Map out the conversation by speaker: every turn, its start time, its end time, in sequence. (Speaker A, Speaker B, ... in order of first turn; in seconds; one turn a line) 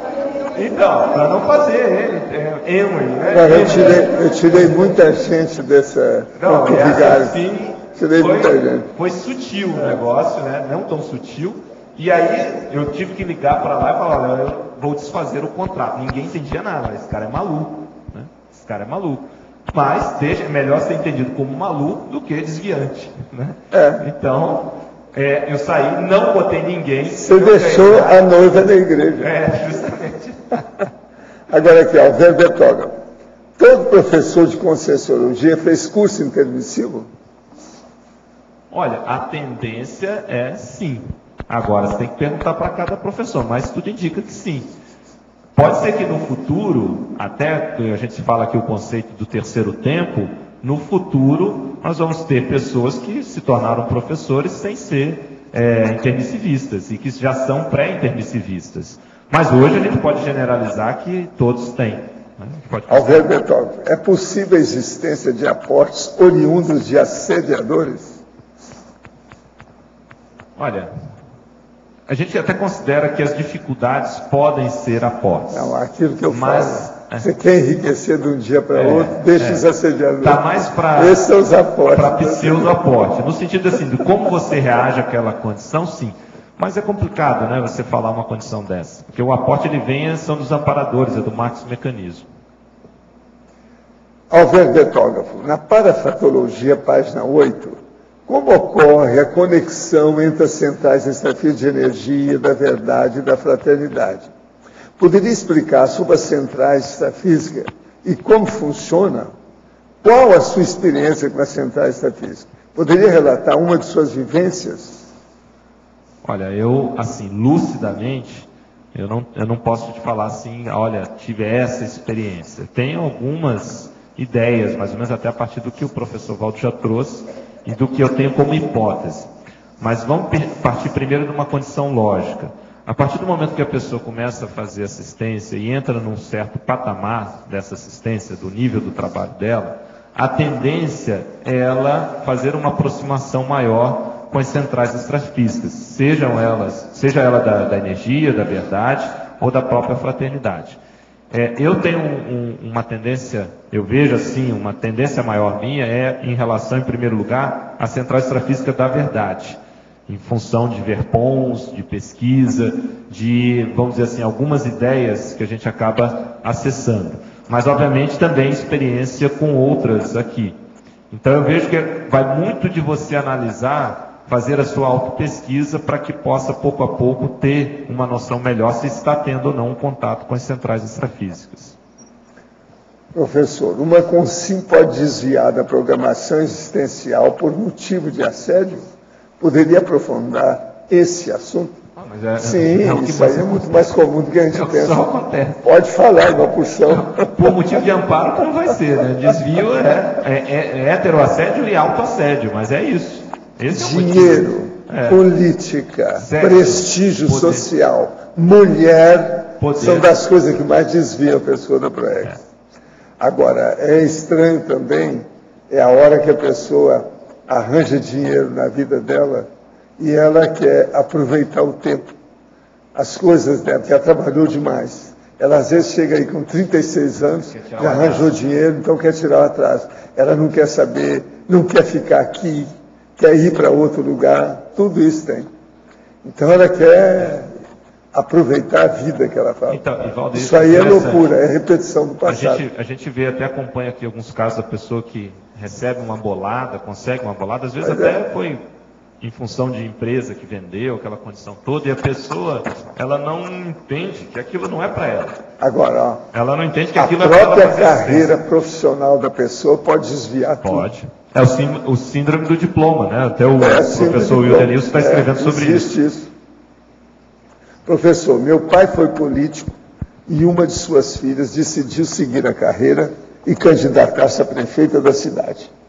Speaker A: 0.5-4.1
Speaker B: 3.2-7.4
Speaker A: 6.4-28.6
Speaker B: 8.0-8.9
Speaker B: 23.7-24.0
Speaker B: 27.1-29.3
Speaker A: 29.2-30.6
Speaker B: 31.5-33.0
Speaker B: 33.6-37.1
Speaker A: 38.7-44.7
Speaker A: 45.6-63.3
Speaker B: 62.9-68.2
Speaker A: 70.6-70.9
Speaker A: 72.1-75.7
Speaker B: 75.5-80.4
Speaker A: 76.3-77.3
Speaker A: 78.7-79.7
Speaker A: 80.2-81.2
Speaker B: 80.9-82.8
Speaker A: 81.9-92.3
Speaker B: 94.3-104.3
Speaker B: 105.0-109.3
Speaker B: 110.0-115.1
Speaker A: 116.2-129.3
Speaker A: 129.8-150.8
Speaker A: 151.3-170.6
Speaker A: 171.1-181.8
Speaker B: 183.1-188.9
Speaker B: 189.4-191.8
Speaker A: 192.0-193.9
Speaker B: 192.4-195.1
Speaker A: 194.5-195.6
Speaker B: 195.6-197.8
Speaker A: 197.2-205.2
Speaker B: 203.7-212.4
Speaker A: 206.2-207.7
Speaker A: 209.6-210.1
Speaker B: 213.2-222.1
Speaker B: 222.9-235.5
Speaker A: 227.5-228.4
Speaker B: 236.2-237.5
Speaker B: 238.1-242.7
Speaker A: 239.7-241.3
Speaker A: 242.2-248.6
Speaker B: 247.8-248.2
Speaker A: 249.2-255.4
Speaker B: 255.6-256.2
Speaker A: 256.3-258.3
Speaker B: 256.9-260.9
Speaker A: 260.6-265.9
Speaker B: 263.6-266.3
Speaker B: 267.9-269.8
Speaker B: 270.3-275.7